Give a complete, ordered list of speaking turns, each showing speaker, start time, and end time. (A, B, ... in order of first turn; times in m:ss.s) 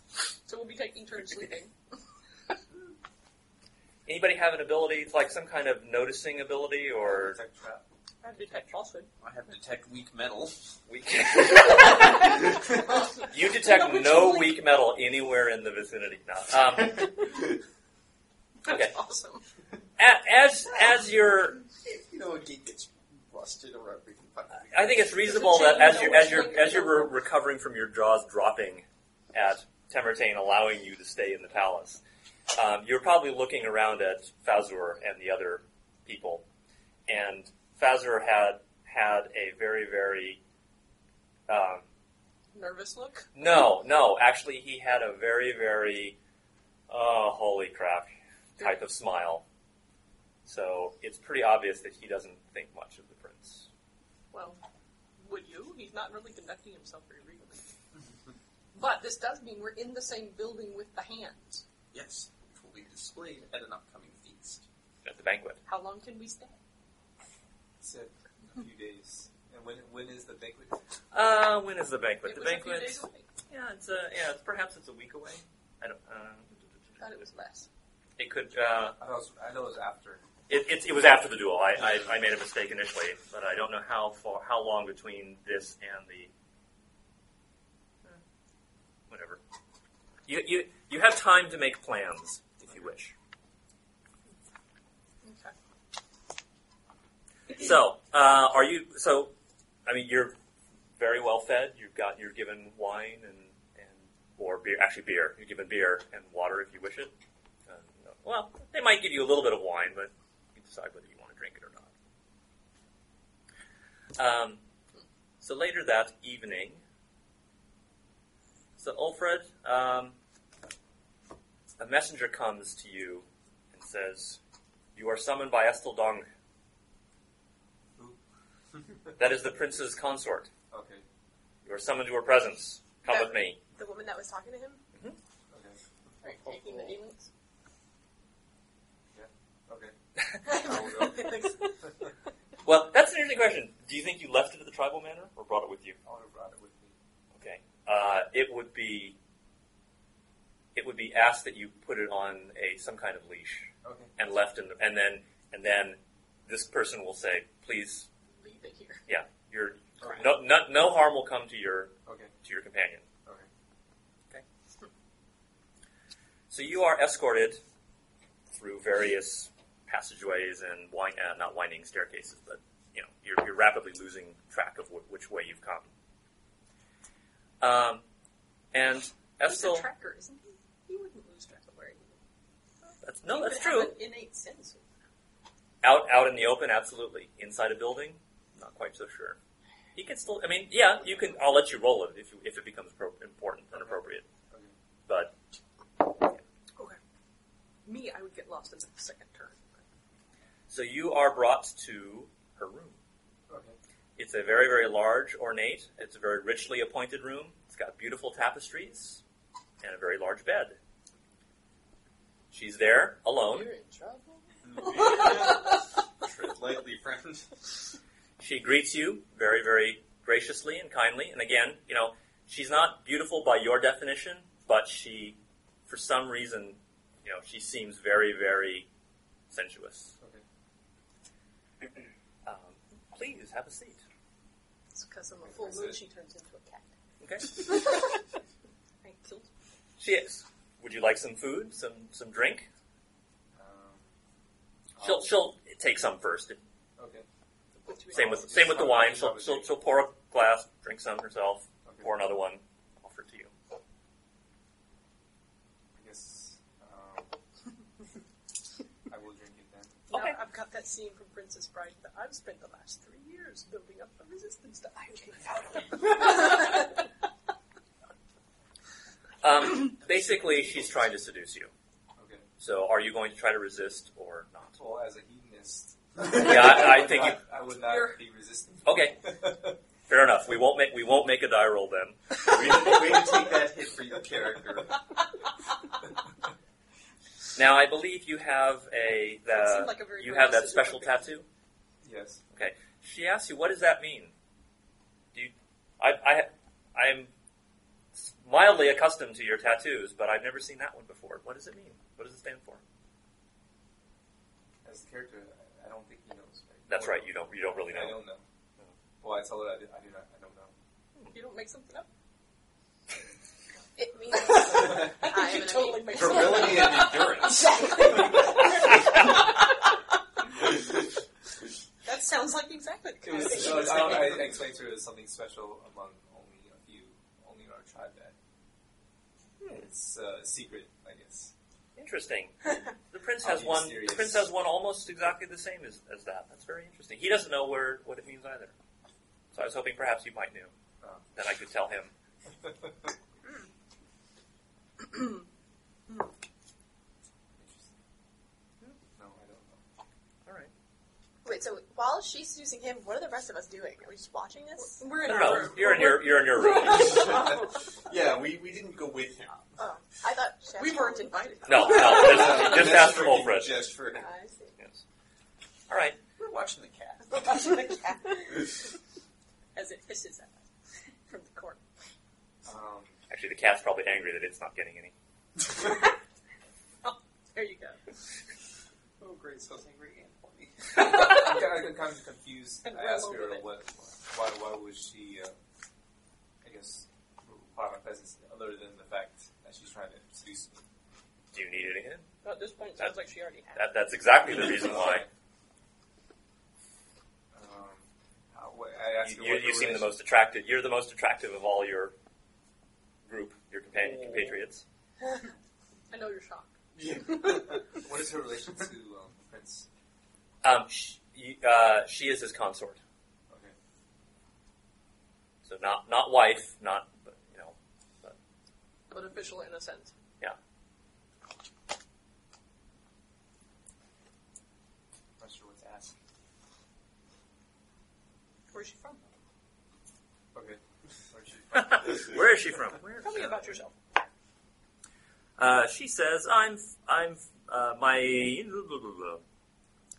0:00.5-0:01.7 A
0:04.1-0:07.4 B
0:07.0-0:07.9 C
0:08.2-0:09.1 A
0:09.2-0:10.6 D
0:10.9-0:12.4 B
0:13.3-0:17.2 B
0:13.6-0:14.6 A
0:18.6-0:19.4 A
0:18.7-0:19.0 B
0:20.0-0:21.6 B
0:21.8-0:25.0 D
0:24.7-0:32.0 B
0:25.2-0:27.1 A
0:32.6-0:36.4 B
0:37.1-0:40.4 B
0:41.5-0:41.9 B
0:42.5-0:43.3 A
0:43.4-0:46.2 B
0:46.9-0:49.4 B
0:50.4-0:53.7 B
0:54.3-0:54.6 A
0:55.2-0:57.7 A
0:58.7-1:01.6 A
1:01.9-1:04.6 D
1:05.0-1:05.6 B
1:05.7-1:06.6 A
1:07.8-1:10.8 C
1:11.1-1:17.2 B
1:12.2-1:13.3 A
1:17.0-1:17.7 A
1:18.2-1:19.0 B
1:19.0-1:20.2 C
1:20.5-1:26.3 B
1:29.1-1:29.4 B
1:30.3-1:33.1 B
1:35.2-1:35.5 A
1:37.5-1:39.3 B
1:39.9-1:40.4 B
1:41.0-1:47.1 B
1:47.7-1:51.9 B
1:54.2-1:54.6 B
1:55.4-1:56.8 B
1:58.8-2:00.2 B
2:01.8-2:04.4 B
2:05.0-2:06.3 B
2:09.2-2:10.5 B
2:10.7-2:11.0 C
2:11.6-2:13.6 B
2:13.0-2:14.8 E
2:15.5-2:16.8 C
2:16.2-2:17.3 A
2:19.1-2:20.0 C
2:20.4-2:21.8 E
2:20.5-2:21.5 C
2:22.6-2:26.0 B
2:26.0-2:27.0 C
2:27.4-2:29.2 B
2:30.8-2:38.1 B
2:33.8-2:34.1 C
2:38.3-2:39.0 A
2:39.1-2:43.1 B
2:40.0-2:40.3 C
2:42.1-2:42.3 C
2:46.5-2:47.6 B
2:48.5-2:55.9 B
2:57.6-2:58.0 B
2:58.7-2:59.9 B
2:59.4-3:02.1 A
3:03.0-3:03.9 B
3:03.3-3:04.9 A
3:05.8-3:09.4 B
3:10.0-3:14.2 B
3:15.1-3:15.4 B
3:17.8-3:19.8 A
3:20.7-3:23.0 B
3:23.5-3:23.8 C
3:24.2-3:29.2 B
3:29.8-3:30.8 B
3:32.5-3:33.7 B
3:33.4-3:35.6 A
3:34.7-3:37.6 D
3:38.4-3:48.9 B
3:49.5-3:50.1 B
3:52.4-3:54.0 B
3:54.9-3:56.8 A
3:55.4-3:56.0 C
3:57.2-3:57.9 B
3:57.7-3:58.0 A
3:59.0-3:59.5 A
4:00.0-4:02.7 B
4:03.6-4:04.1 C
4:05.0-4:05.3 C
4:05.0-4:06.6 B
4:07.0-4:07.3 C
4:07.8-4:08.9 A
4:08.1-4:09.8 C
4:08.1-4:13.5 B
4:11.8-4:12.2 C
4:16.0-4:17.4 C
4:19.1-4:20.1 C
4:20.1-4:20.4 B
4:20.1-4:27.0 A
4:29.4-4:31.7 B
4:32.2-4:32.5 C
4:32.6-4:34.8 B
4:34.8-4:39.7 C
4:36.2-4:37.4 B
4:37.8-4:38.2 A
4:38.8-4:39.2 B
4:40.1-4:42.6 B
4:42.4-4:45.0 D
4:47.6-4:51.5 B
4:49.5-4:51.3 A
4:52.0-4:52.4 C
4:52.5-4:54.3 B
4:55.3-4:57.3 B
4:58.2-5:02.8 B
5:04.8-5:08.4 C
5:06.9-5:08.2 B
5:09.2-5:10.7 C
5:11.3-5:12.1 A
5:14.0-5:16.7 E
5:14.5-5:19.6 A
5:14.7-5:15.1 D
5:16.1-5:18.4 D
5:17.7-5:19.0 E
5:22.0-5:24.6 A
5:23.2-5:28.4 C
5:29.7-5:31.5 C
5:32.0-5:38.7 B
5:33.4-5:34.5 C
5:39.5-5:40.7 B
5:41.0-5:41.3 C
5:41.4-5:42.1 B
5:45.1-5:45.4 A
5:47.6-5:47.9 C
5:49.1-5:49.8 C
5:50.5-5:50.7 B
5:51.4-5:55.1 E
5:54.8-5:57.2 A
5:55.2-5:57.3 B
5:56.8-5:59.7 D
5:59.8-6:02.1 E
6:00.8-6:02.6 A
6:01.7-6:03.8 B
6:01.9-6:04.3 D
6:04.1-6:04.7 E
6:05.9-6:06.2 B
6:06.4-6:07.7 D
6:07.5-6:08.1 E
6:09.8-6:10.6 A
6:11.3-6:11.8 A
6:12.6-6:13.2 C
6:13.3-6:15.1 B
6:17.0-6:18.1 A
6:19.2-6:21.0 D
6:21.0-6:25.5 C
6:22.8-6:23.7 A
6:26.6-6:30.8 C
6:31.5-6:32.3 B
6:32.4-6:33.9 A
6:33.8-6:35.2 B
6:34.4-6:35.3 C
6:37.5-6:40.2 C
6:39.2-6:42.1 B
6:43.3-6:44.8 B
6:46.1-6:46.7 A
6:47.0-6:47.6 D
6:47.3-6:49.9 C
6:47.5-6:47.8 A
6:50.6-6:53.0 B
6:55.6-6:58.4 B
6:59.1-7:00.1 A
7:05.4-7:06.2 C
7:08.7-7:09.3 A
7:10.5-7:12.5 C
7:11.7-7:13.8 B
7:13.2-7:14.0 A
7:15.6-7:19.4 B